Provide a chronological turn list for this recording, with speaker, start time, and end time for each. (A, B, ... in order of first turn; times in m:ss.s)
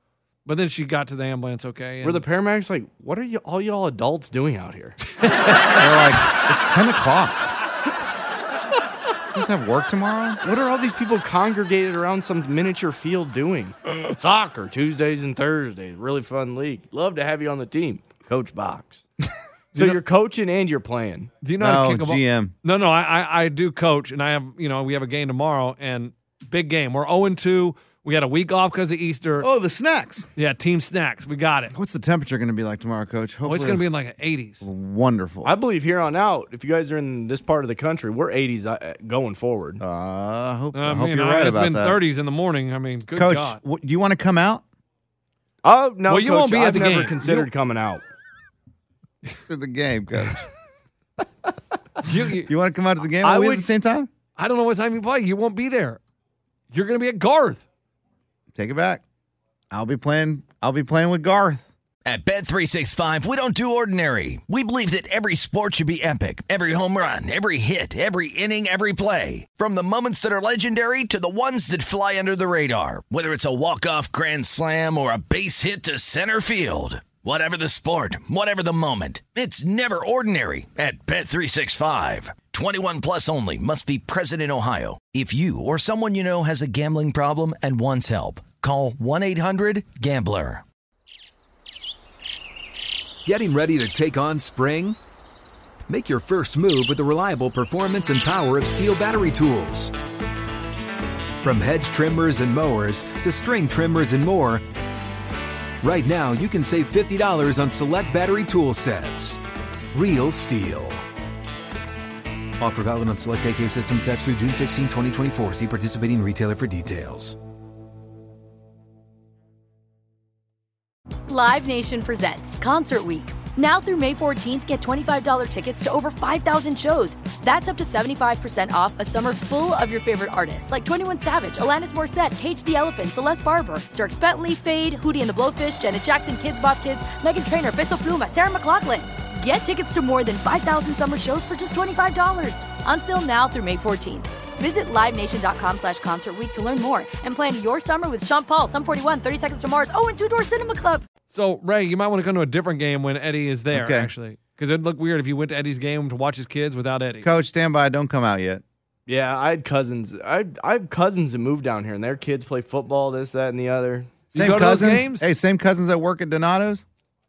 0:00.4-0:02.2 A
0:02.0-0:05.0 B
0:05.3-0:05.7 A
0:05.8-0:07.5 C
0:09.3-0:10.4 C
0:10.4-0:19.1 B
0:19.7-0:20.0 A
0:19.7-0:21.3 B
0:21.4-0:29.5 A
0:21.6-0:22.5 C
0:29.4-0:30.3 C
0:30.4-0:31.7 A
0:31.7-0:33.9 C
0:33.4-0:34.6 A
0:34.6-0:35.5 C
0:35.4-0:39.8 B
0:39.8-0:42.0 C
0:40.7-0:43.6 A
0:43.1-0:44.6 C
0:45.6-0:48.0 B
0:46.1-0:47.5 A
0:49.4-0:50.4 C
0:52.0-0:52.5 A
0:52.4-0:54.1 C
0:53.2-0:53.6 B
0:54.4-0:56.0 A
0:56.7-0:57.7 A
0:58.5-0:59.0 C
0:59.7-1:01.7 C
1:02.0-1:30.6 D
1:33.3-1:35.0 E
1:35.9-1:39.9 E
1:41.4-1:44.6 E
1:45.8-1:49.4 E
1:49.9-1:51.0 E
1:52.6-1:57.4 E
2:01.3-2:31.0 F
2:31.3-2:37.3 A
2:33.7-2:34.1 C
2:37.2-2:38.6 C
2:39.1-2:44.3 B
2:44.3-2:45.3 A
2:44.4-2:46.8 C